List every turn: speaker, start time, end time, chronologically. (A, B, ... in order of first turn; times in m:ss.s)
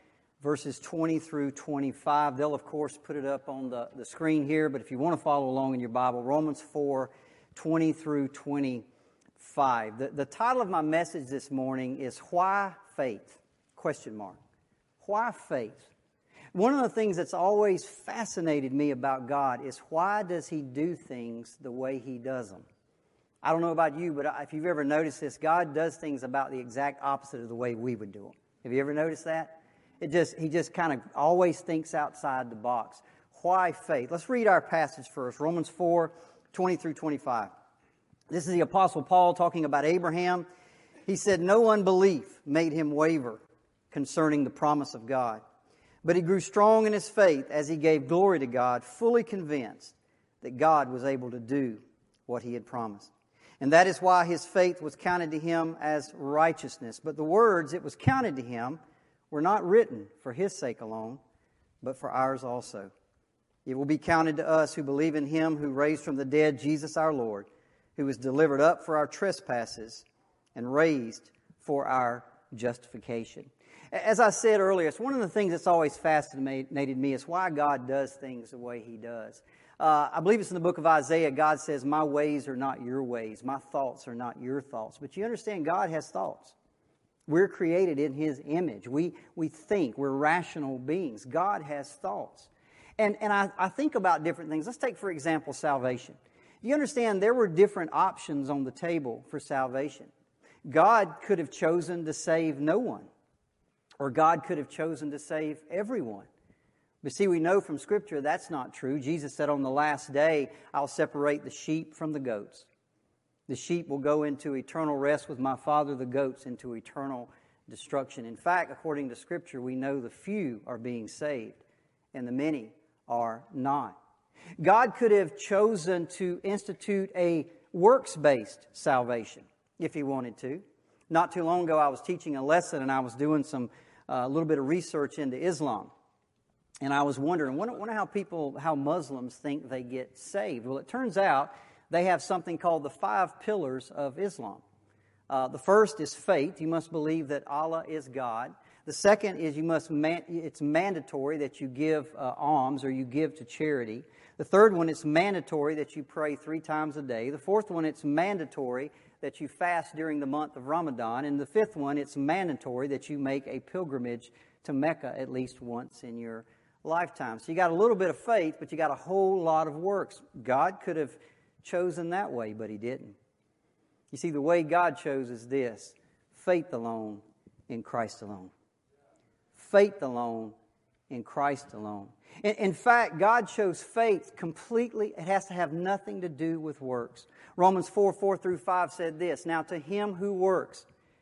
0:00.4-0:08.8 A
0:09.4-0:14.4 A
0:15.0-0:15.9 A
0:16.5-0:22.6 A
0:23.4-0:37.5 A
0:38.3-0:40.4 A
0:41.1-0:45.4 A
0:46.0-0:58.8 A
0:59.3-1:01.2 A
1:01.8-1:02.9 A
1:03.6-1:10.0 A
1:10.6-1:26.5 A
1:27.3-1:40.1 A
1:40.7-1:43.1 A
1:44.0-1:46.3 A
1:47.0-1:52.7 A
1:53.5-2:01.6 A
2:02.1-2:04.0 A
2:04.6-2:15.9 A
2:16.8-2:24.6 A
2:25.3-2:53.2 A
2:54.1-2:58.5 A
2:59.5-3:00.5 A
3:01.1-3:10.8 A